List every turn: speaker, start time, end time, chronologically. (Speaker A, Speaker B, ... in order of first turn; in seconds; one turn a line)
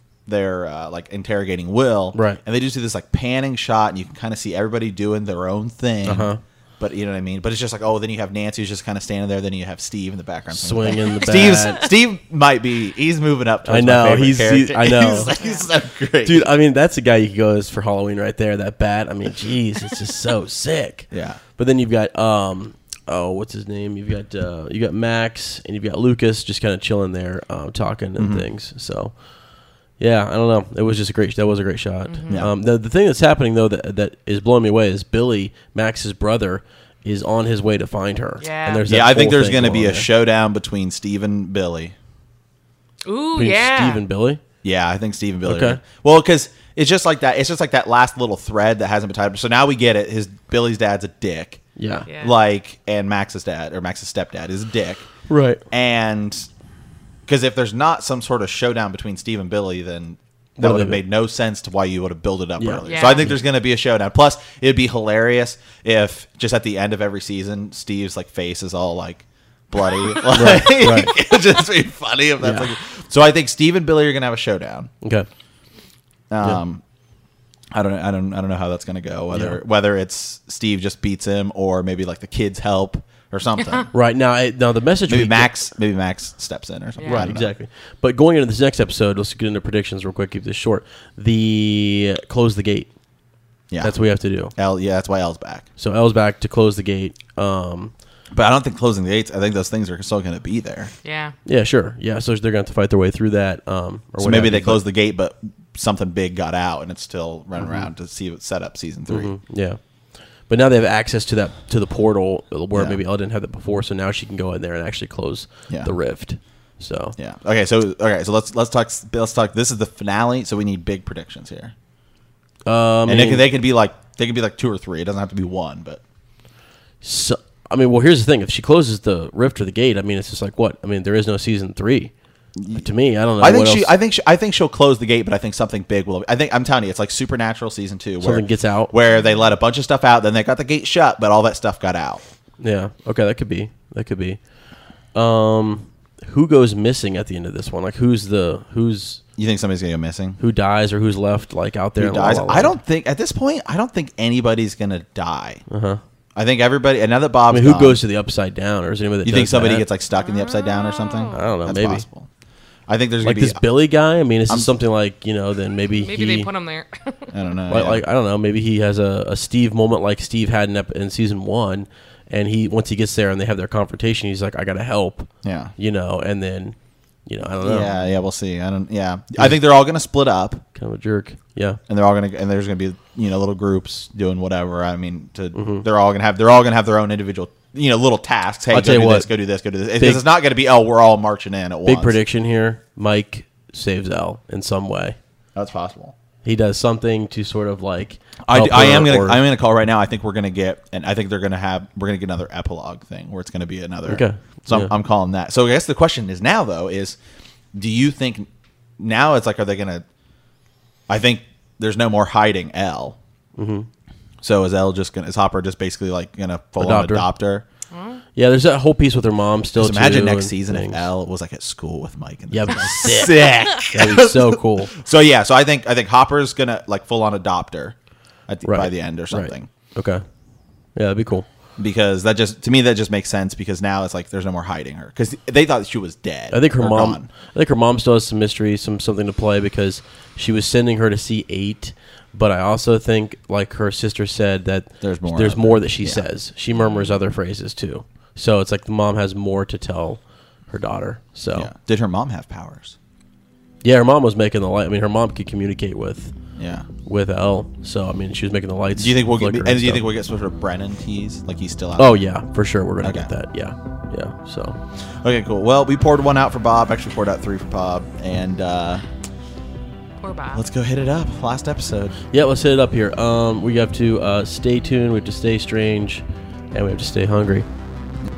Speaker A: 0.3-16.5
Speaker B: 2.1-2.4
Speaker B: 6.0-6.4
Speaker B: 10.5-11.8
Speaker C: 11.0-11.8
Speaker B: 13.6-15.3
Speaker C: 15.4-15.7
Speaker B: 16.2-29.2
Speaker A: 21.1-21.4
Speaker A: 28.2-28.4
Speaker B: 30.0-40.1
Speaker C: 32.0-32.5
Speaker C: 38.4-38.9
Speaker A: 38.9-41.9
Speaker C: 43.0-44.0
Speaker B: 43.4-44.4
Speaker A: 44.6-51.6
Speaker B: 45.4-45.8
Speaker B: 51.8-52.1
Speaker C: 52.1-52.3
Speaker A: 52.2-55.1
Speaker B: 55.3-55.6
Speaker A: 55.7-56.5
Speaker A: 57.3-74.9
Speaker B: 60.6-61.0
Speaker B: 62.6-63.3
Speaker C: 62.8-63.4
Speaker B: 70.3-71.1
Speaker B: 72.4-72.7
Speaker B: 75.0-75.3
Speaker A: 76.3-76.8
Speaker A: 77.7-83.9
Speaker B: 79.3-79.6
Speaker B: 83.9-85.5
Speaker A: 85.0-87.5
Speaker C: 87.0-87.3
Speaker B: 87.0-92.9
Speaker A: 93.7-95.7
Speaker B: 93.8-94.5
Speaker B: 95.8-97.9
Speaker A: 98.3-100.9
Speaker C: 101.0-101.3
Speaker B: 101.4-104.8
Speaker A: 104.2-109.3
Speaker B: 107.6-107.9
Speaker B: 109.1-109.8
Speaker B: 110.4-117.2
Speaker A: 112.7-113.0
Speaker A: 117.2-121.7
Speaker B: 122.7-123.5
Speaker A: 123.1-126.0
Speaker B: 127.0-132.1
Speaker A: 132.6-132.9
Speaker B: 132.7-133.9
Speaker A: 133.4-142.2
Speaker B: 138.2-138.9
Speaker C: 139.1-139.4
Speaker B: 142.6-144.4
Speaker B: 145.1-149.2
Speaker A: 149.4-150.4
Speaker B: 150.4-152.8
Speaker A: 152.0-155.6
Speaker B: 155.7-156.0
Speaker A: 156.3-158.0
Speaker B: 157.5-159.8
Speaker A: 159.2-162.3
Speaker C: 160.1-161.5
Speaker B: 161.3-162.1
Speaker A: 162.9-163.6
Speaker B: 163.2-166.5
Speaker C: 166.0-167.5
Speaker A: 167.3-168.0
Speaker B: 167.7-178.1
Speaker A: 175.4-175.7
Speaker A: 177.6-180.6
Speaker B: 180.7-181.8
Speaker A: 181.9-192.2
Speaker B: 185.5-185.8
Speaker B: 188.7-189.3
Speaker B: 190.0-190.2
Speaker B: 191.8-195.2
Speaker A: 195.5-196.2
Speaker B: 196.4-199.4
Speaker A: 198.5-207.2
Speaker B: 204.0-204.9
Speaker A: 207.7-208.5
Speaker A: 209.0-210.0
Speaker A: 211.1-213.2
Speaker B: 213.6-213.9
Speaker A: 214.4-217.6
Speaker B: 216.8-217.3
Speaker C: 217.9-218.2
Speaker B: 218.3-221.1
Speaker A: 219.8-227.9
Speaker B: 222.5-224.9
Speaker A: 228.5-229.7
Speaker B: 228.6-230.2
Speaker B: 230.9-231.4
Speaker A: 231.8-237.3
Speaker B: 236.5-251.7
Speaker A: 245.0-246.2
Speaker C: 246.8-247.1
Speaker A: 251.5-253.0
Speaker B: 253.8-256.3
Speaker A: 256.6-256.9
Speaker B: 257.0-260.1
Speaker A: 258.9-262.1
Speaker B: 262.0-264.8
Speaker A: 263.0-263.3
Speaker A: 265.2-269.0
Speaker C: 270.2-270.6
Speaker A: 270.5-272.1
Speaker B: 272.3-277.7